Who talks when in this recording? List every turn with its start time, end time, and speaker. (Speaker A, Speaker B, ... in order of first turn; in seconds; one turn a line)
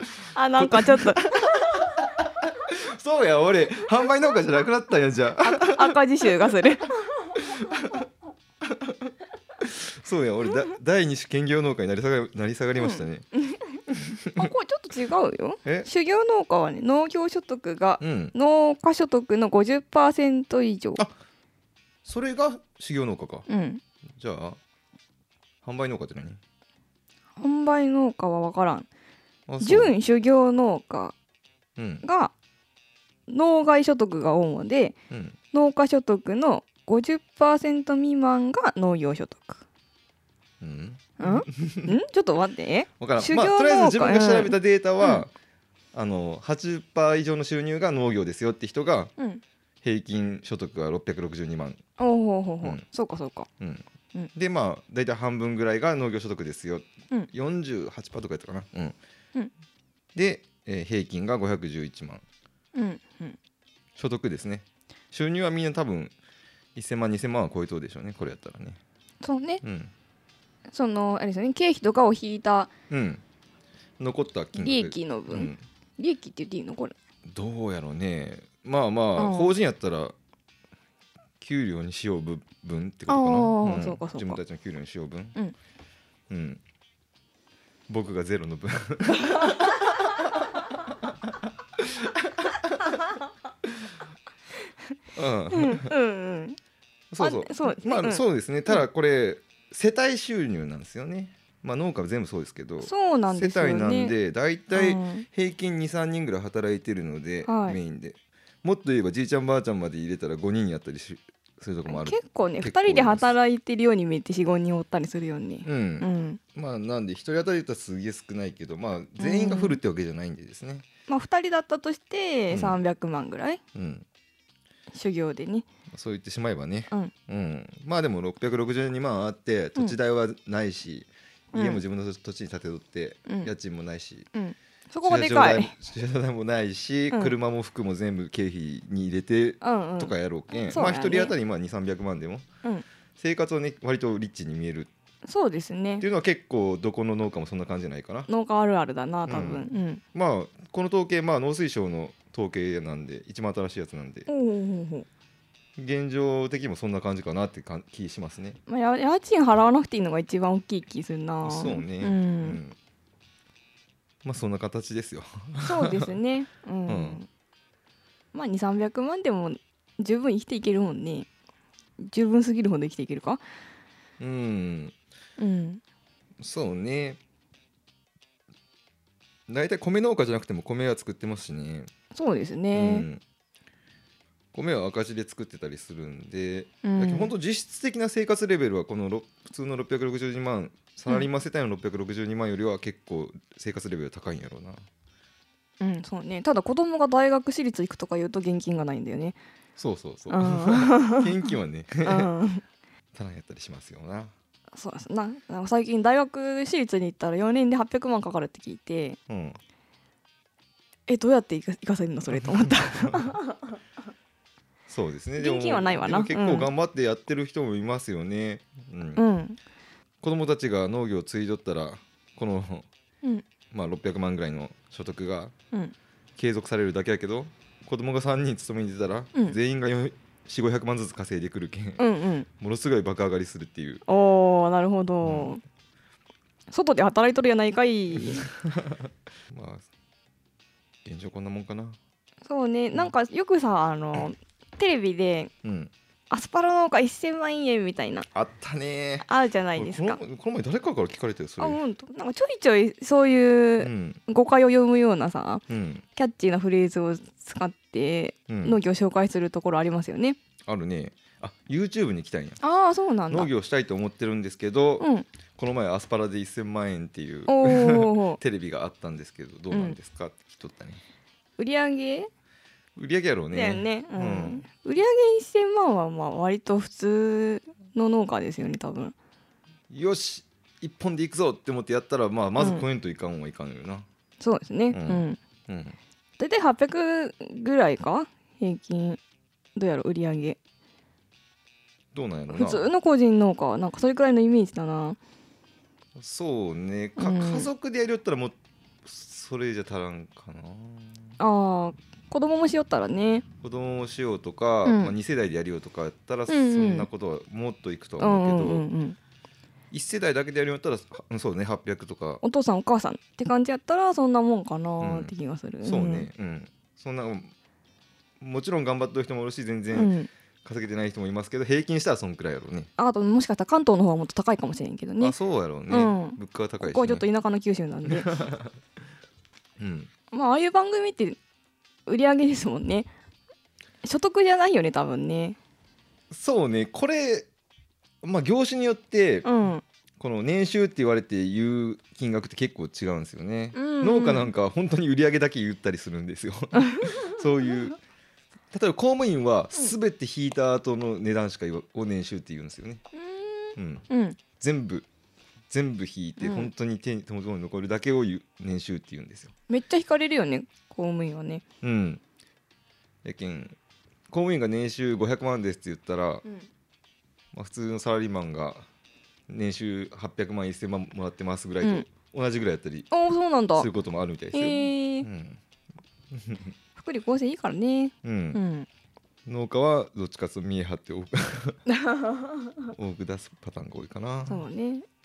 Speaker A: 0.3-1.3
Speaker B: 0.6-6.0
Speaker A: 5.4-7.3
Speaker B: 7.3-8.0
Speaker B: 8.6-13.2
Speaker A: 12.8-13.8
Speaker B: 13.9-14.5
Speaker A: 14.3-21.0
Speaker B: 18.0-18.3
Speaker B: 22.0-23.5
Speaker A: 23.5-23.8
Speaker B: 24.2-24.6
Speaker B: 25.6-26.4
Speaker A: 27.4-28.9
Speaker B: 29.5-29.9
Speaker A: 29.6-31.1
Speaker B: 31.8-32.0
Speaker A: 32.0-32.3
Speaker A: 33.3-35.0
Speaker B: 35.1-35.4
Speaker A: 35.5-39.6
Speaker B: 40.6-41.9
Speaker A: 41.2-45.2
Speaker B: 43.0-45.3
Speaker B: 45.9-49.1
Speaker B: 49.8-51.8
Speaker A: 52.0-53.5
Speaker B: 54.3-59.0
Speaker B: 60.1-62.2
Speaker A: 62.7-63.4
Speaker B: 64.0-66.1
Speaker B: 66.8-68.8
Speaker A: 69.2-69.6
Speaker B: 69.6-69.9
Speaker A: 70.7-72.7
Speaker B: 72.9-73.2
Speaker B: 74.0-75.6
Speaker A: 74.5-76.9
Speaker B: 77.3-80.1
Speaker A: 79.2-79.5
Speaker B: 81.4-85.4
Speaker A: 83.1-84.4
Speaker B: 86.3-86.6
Speaker B: 87.9-91.1
Speaker B: 91.8-92.9
Speaker B: 95.1-95.9
Speaker A: 95.5-96.6
Speaker B: 97.1-113.3
Speaker A: 97.2-98.8
Speaker A: 102.8-104.1
Speaker A: 104.7-105.2
Speaker A: 107.4-107.8
Speaker A: 111.9-116.4
Speaker B: 115.6-120.8
Speaker A: 119.2-119.8
Speaker A: 121.1-123.6
Speaker B: 122.5-122.8
Speaker B: 123.7-124.0
Speaker A: 124.9-125.6
Speaker B: 125.9-134.3
Speaker A: 131.5-131.8
Speaker A: 133.3-133.5
Speaker A: 134.3-135.7
Speaker B: 135.0-142.5
Speaker A: 137.1-137.3
Speaker A: 139.6-141.3
Speaker B: 143.2-144.9
Speaker A: 145.2-146.0
Speaker B: 146.0-148.3
Speaker A: 148.3-150.0
Speaker B: 149.2-154.3
Speaker A: 154.3-155.1
Speaker B: 155.8-158.6
Speaker A: 158.7-162.6
Speaker B: 161.4-162.8
Speaker B: 164.2-166.1
Speaker A: 165.6-167.3
Speaker B: 166.9-167.2
Speaker A: 168.3-171.3
Speaker A: 172.0-173.4
Speaker B: 174.2-174.9
Speaker A: 175.4-175.8
Speaker B: 176.4-177.2
Speaker B: 179.5-181.9
Speaker A: 182.1-183.1
Speaker B: 182.7-183.2
Speaker B: 184.5-194.8
Speaker A: 186.8-187.3
Speaker A: 195.8-199.4
Speaker B: 199.8-202.3
Speaker A: 200.3-201.3
Speaker A: 202.0-202.6
Speaker B: 203.1-204.3
Speaker A: 204.7-209.2
Speaker B: 209.3-209.6
Speaker A: 211.1-213.4
Speaker B: 212.3-213.4
Speaker B: 214.9-219.2
Speaker A: 215.4-216.7
Speaker A: 219.2-219.6
Speaker B: 220.2-222.9
Speaker B: 223.7-225.5
Speaker B: 226.4-232.1
Speaker A: 232.0-232.5
Speaker B: 232.6-234.0
Speaker A: 234.1-235.6
Speaker B: 235.2-235.6
Speaker A: 236.7-238.4
Speaker B: 238.3-239.8
Speaker B: 241.0-242.0
Speaker A: 242.4-245.5
Speaker B: 245.6-245.9
Speaker A: 246.3-248.3
Speaker B: 248.3-251.8
Speaker A: 249.2-250.2
Speaker A: 251.6-255.6
Speaker B: 253.8-254.2
Speaker B: 255.7-256.0
Speaker A: 256.1-260.4
Speaker B: 258.5-258.8
Speaker B: 260.7-262.6
Speaker A: 262.6-263.5
Speaker B: 263.3-271.0
Speaker A: 265.0-265.2
Speaker A: 267.5-268.4
Speaker A: 269.7-270.0
Speaker A: 271.6-272.3
Speaker B: 272.9-274.6
Speaker A: 273.5-279.1
Speaker B: 279.9-284.1
Speaker A: 282.6-282.8
Speaker A: 284.4-285.4
Speaker B: 284.9-285.9
Speaker A: 286.4-289.2
Speaker A: 289.7-290.6
Speaker B: 292.1-292.9
Speaker A: 292.5-295.2
Speaker B: 296.2-301.4
Speaker A: 297.2-297.7
Speaker A: 301.4-303.4
Speaker B: 303.6-308.8
Speaker A: 304.8-305.1
Speaker A: 306.5-307.1
Speaker A: 308.2-309.2
Speaker B: 309.9-312.4
Speaker A: 312.4-316.3
Speaker B: 315.0-317.5
Speaker B: 318.4-320.1
Speaker A: 319.9-320.3
Speaker B: 320.6-322.9
Speaker A: 323.0-325.4
Speaker B: 325.2-327.2
Speaker A: 325.9-328.4
Speaker B: 328.1-328.7
Speaker B: 329.8-330.1
Speaker A: 330.3-331.4
Speaker A: 332.1-333.1
Speaker A: 334.0-335.6
Speaker B: 336.3-337.5
Speaker B: 338.2-339.5
Speaker A: 339.4-339.8
Speaker B: 340.2-348.0
Speaker A: 343.7-344.5
Speaker A: 346.8-347.1
Speaker B: 348.7-353.0
Speaker A: 353.1-354.4
Speaker B: 353.8-354.0
Speaker B: 354.6-355.1
Speaker B: 355.7-359.5
Speaker A: 356.4-356.7
Speaker A: 359.7-361.6
Speaker B: 361.8-362.2
Speaker B: 363.2-363.8
Speaker B: 364.3-366.4
Speaker B: 367.5-368.8
Speaker B: 369.5-373.1
Speaker A: 373.1-373.9
Speaker B: 373.7-375.6
Speaker A: 374.5-375.3
Speaker B: 376.3-376.7
Speaker A: 376.9-378.9
Speaker B: 378.2-378.6
Speaker B: 379.5-381.8
Speaker A: 381.9-382.7
Speaker B: 382.9-384.6
Speaker A: 384.5-385.0